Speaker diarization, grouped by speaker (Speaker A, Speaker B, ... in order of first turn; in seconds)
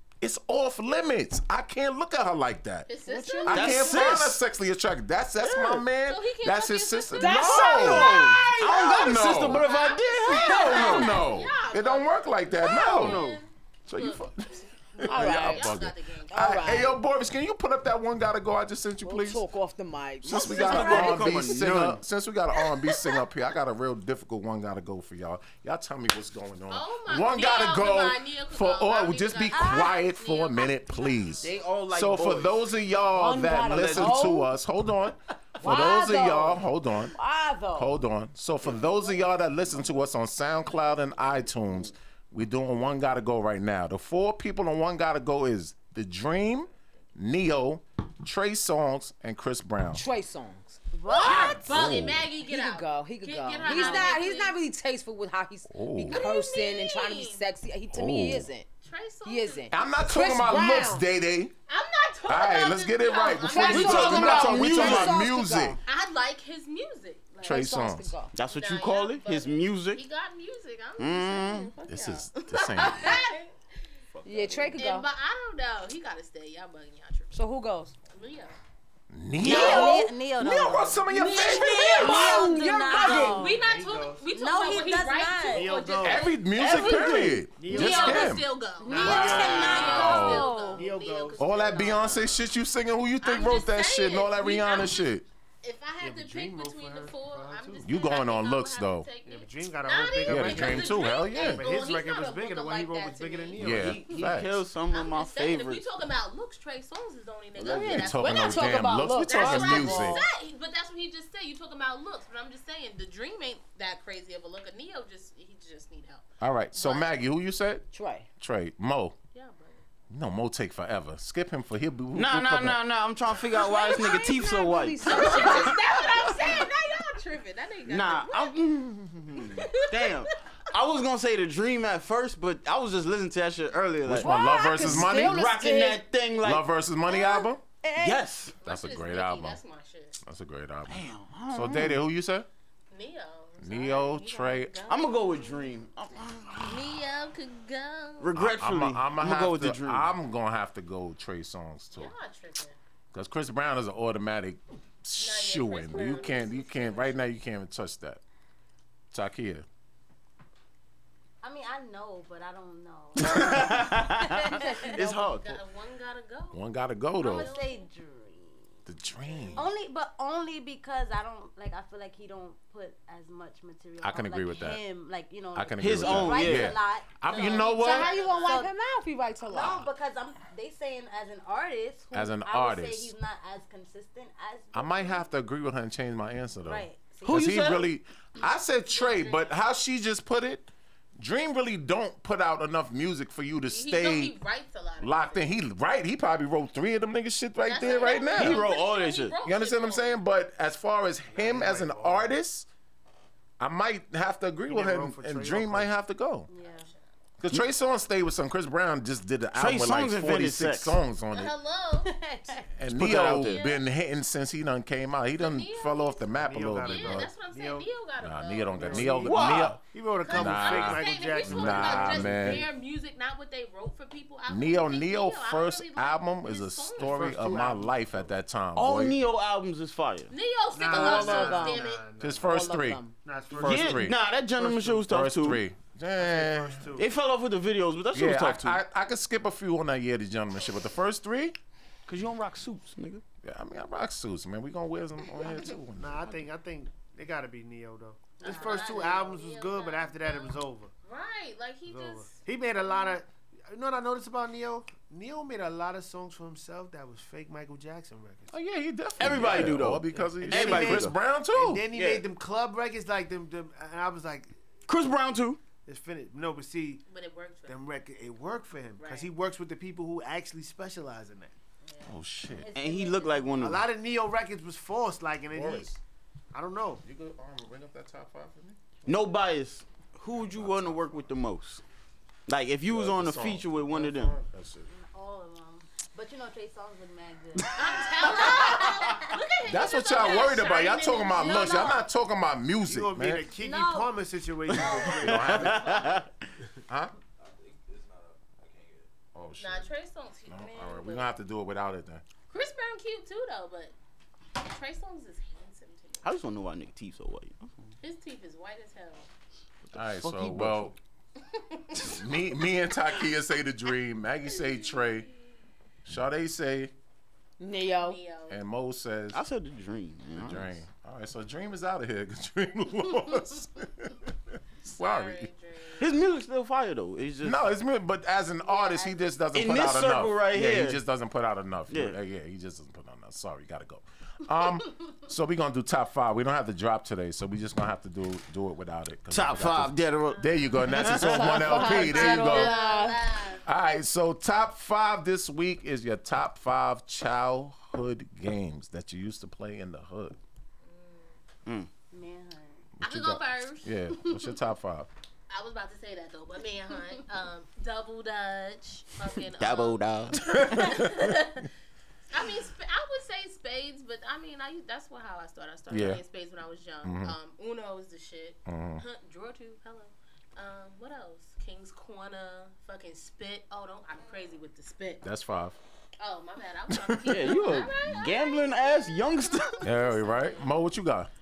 Speaker A: 0.2-2.9, 3.4-9.7, 10.6-13.2, 13.9-19.4, 20.3-37.1, 37.7-50.0, 51.6-52.3, 55.7-56.2, 57.9-58.5, 59.7-61.5, 62.3-65.8, 67.4-68.2, 71.9-73.2, 79.1-82.3, 86.0-90.5, 91.4-95.2, 97.8-99.1, 100.2-101.7, 103.6-104.6, 107.6-110.2, 116.4-117.8, 118.4-119.2, 120.1-122.8, 134.1-135.4, 136.4-137.6, 138.6-139.6, 140.2-142.5, 143.6-144.8, 148.3-152.1, 153.1-158.2, 159.1-159.6, 166.5-167.5, 168.8-169.6, 174.0-174.8, 175.5-178.1, 182.1-183.1, 184.7-194.3, 195.0-198.6, 199.4-202.7, 203.6-206.5, 207.4-211.5, 212.8-217.3, 218.2-222.7, 224.5-229.2, 232.2-234.2, 234.9-236.9, 238.1-241.6, 243.4-246.5, 258.5-261.9, 272.0-272.7, 275.5-276.0, 277.0-278.8, 280.4-281.2, 282.9-284.9, 288.3-288.8, 289.7-293.5, 294.9-296.1, 296.9-297.1, 299.3-299.9, 300.5-302.2, 309.9-310.9, 312.0-315.3, 316.1-316.9, 318.5-319.4, 320.3-325.5, 327.4-342.7, 343.6-350.4, 353.0-355.1, 360.5-361.4, 365.9-366.2, 367.0-367.4, 368.7-369.0, 375.2-375.8, 376.9-377.4, 379.8-381.3
Speaker B: 2.9-4.3, 6.0-8.0, 9.2-16.5, 22.9-23.2, 26.7-31.5, 51.1-54.5, 56.1-57.5, 58.8-59.8, 61.7-64.6, 65.8-67.6, 68.5-73.5, 74.7-77.4, 78.1-78.5, 81.1-92.3, 93.2-95.0, 95.6-104.2, 104.9-117.2, 119.3-119.8, 125.0-128.6, 129.3-130.3, 138.6-140.2, 142.9-145.7, 146.6-148.3, 151.9-152.8, 155.2-157.2, 165.1-166.6, 167.2-167.9, 169.2-169.7, 177.2-178.6, 188.9-189.6, 193.7-195.5, 197.7-200.2, 206.7-207.0, 211.3-212.1, 213.1-213.8, 215.4-216.3, 216.8-219.3, 220.2-227.3, 230.3-232.1, 248.4-253.2, 267.1-267.8, 269.0-269.3, 271.8-272.1, 287.7-292.0, 299.6-301.3, 302.5-303.9, 304.6-306.3, 308.0-309.3, 311.5-312.2, 314.6-315.3, 317.9-318.6, 324.9-326.1, 340.3-343.6, 350.8-351.4, 353.0-354.5, 355.5-361.7, 362.3-375.2, 376.2-380.8
Speaker C: 3.1-3.7, 7.2-9.3, 10.3-11.1, 15.1-15.7, 16.3-17.0, 19.0-21.5, 33.1-34.5, 35.6-37.9, 49.9-51.6, 52.4-58.7, 59.2-61.0, 63.4-65.8, 67.4-68.3, 74.2-75.1, 77.3-77.9, 79.4-80.1, 81.6-83.6, 107.6-110.2, 117.9-118.3, 123.5-126.6, 134.2-136.0, 137.1-138.2, 177.8-179.8, 230.9-231.8, 232.4-233.1, 317.6-318.2, 341.1-343.2
Speaker D: 3.5-4.4, 5.4-5.8, 7.3-11.2, 12.6-13.4, 20.2-22.0, 31.4-32.6, 33.6-34.4, 63.6-65.2, 68.3-70.0, 71.0-71.7, 74.1-74.8, 79.4-80.0, 86.5-87.5, 103.7-105.8, 107.6-108.0, 122.1-125.8, 127.8-136.6, 137.9-138.6, 140.9-142.0, 144.9-146.9, 148.2-150.1, 163.2-165.6, 175.8-176.8, 187.2-187.8, 198.2-199.4, 209.5-211.0, 212.9-213.5, 219.2-219.8, 228.7-230.3, 233.5-235.6, 237.0-238.8, 242.1-243.2, 259.2-261.1, 261.9-262.2, 264.9-265.6, 272.7-273.9, 279.1-281.8, 282.5-284.4, 295.5-296.2, 306.2-307.9, 309.9-310.9, 319.3-320.8, 326.0-327.6, 329.5-331.0, 331.9-332.2, 339.3-341.8, 359.6-360.6, 377.3-379.9
Speaker E: 29.5-30.0, 50.9-51.9, 53.6-54.2, 79.4-83.6, 84.3-85.8, 88.8-90.9, 161.4-165.0, 167.2-168.8, 169.5-178.7, 179.5-185.2, 186.6-187.5, 206.5-206.9, 212.0-212.7, 248.4-249.1, 272.6-273.7, 284.9-289.3, 291.3-292.0, 293.6-294.1, 294.8-295.1, 328.7-329.1, 352.1-352.9
Speaker F: 83.5-84.3, 85.5-86.3, 87.5-92.3, 96.0-97.9, 99.2-104.0, 201.3-202.3, 204.7-205.9, 216.3-217.8, 218.7-222.7, 227.0-228.3, 230.7-232.7, 233.2-235.0, 236.2-237.1, 245.9-250.9, 251.9-258.5, 259.2-264.5, 265.9-267.0, 267.7-271.5, 273.6-275.9, 276.5-277.0, 292.9-296.0